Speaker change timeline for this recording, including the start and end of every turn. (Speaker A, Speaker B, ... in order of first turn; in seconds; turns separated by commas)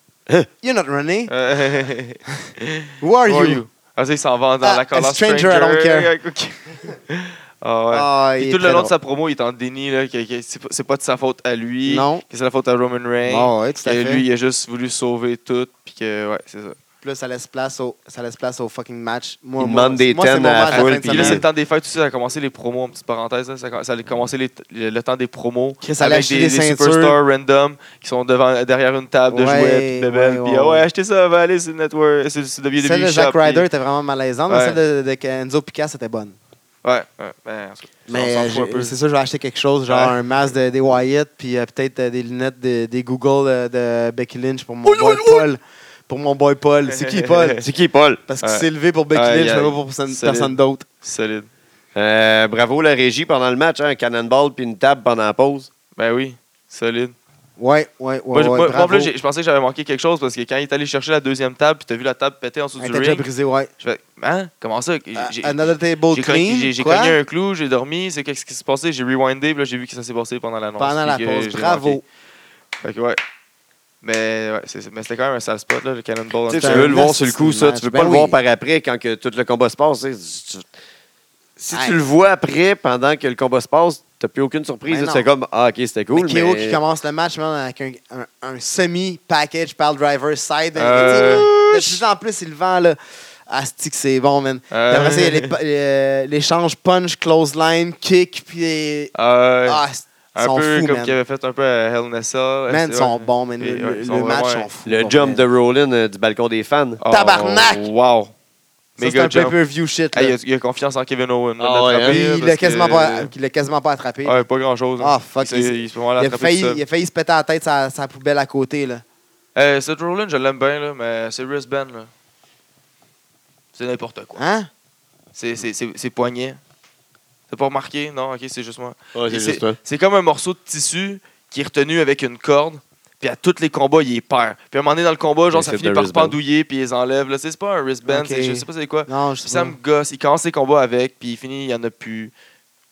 Speaker A: 0.6-1.3, Speaker B: 1.3-16.8, Speaker A: 3.0-3.6, Speaker A: 4.6-6.1, Speaker A: 7.9-8.9, Speaker A: 11.8-12.2, Speaker A: 13.2-14.2, Speaker A: 17.0-21.4, Speaker C: 19.6-21.4, Speaker B: 20.7-33.7, Speaker A: 25.8-27.2, Speaker A: 29.3-30.8, Speaker A: 32.8-36.4, Speaker B: 34.5-34.8, Speaker B: 36.8-39.0, Speaker A: 38.1-47.6, Speaker B: 39.9-40.1, Speaker C: 44.9-45.4, Speaker B: 47.0-47.6, Speaker C: 47.6-48.2, Speaker A: 48.3-50.9, Speaker B: 48.4-51.5, Speaker C: 51.9-55.7, Speaker B: 56.0-57.1, Speaker A: 57.6-59.1, Speaker B: 58.3-63.2, Speaker A: 62.8-63.7, Speaker B: 63.8-72.0, Speaker A: 65.2-67.2, Speaker A: 70.8-72.0, Speaker B: 72.8-73.2, Speaker B: 74.0-77.0, Speaker C: 76.5-80.7, Speaker A: 76.5-78.4, Speaker C: 81.6-86.8, Speaker A: 81.7-82.0, Speaker A: 84.9-85.2, Speaker A: 86.1-99.1, Speaker B: 90.7-91.5, Speaker C: 90.9-92.0, Speaker B: 94.7-95.5, Speaker B: 99.1-99.8, Speaker A: 99.7-101.2, Speaker B: 100.3-104.7, Speaker A: 102.7-105.4, Speaker C: 104.8-107.0, Speaker B: 107.0-108.3, Speaker A: 107.1-107.9, Speaker A: 109.0-110.3, Speaker B: 109.0-109.6, Speaker B: 110.1-113.3, Speaker C: 111.6-112.2, Speaker A: 112.0-114.4, Speaker B: 114.2-116.8, Speaker A: 115.0-119.0, Speaker B: 119.5-122.1, Speaker B: 123.7-124.4, Speaker A: 124.4-124.7, Speaker B: 125.3-126.6, Speaker B: 127.5-142.3, Speaker C: 129.1-129.8, Speaker C: 135.5-136.4, Speaker A: 138.1-139.8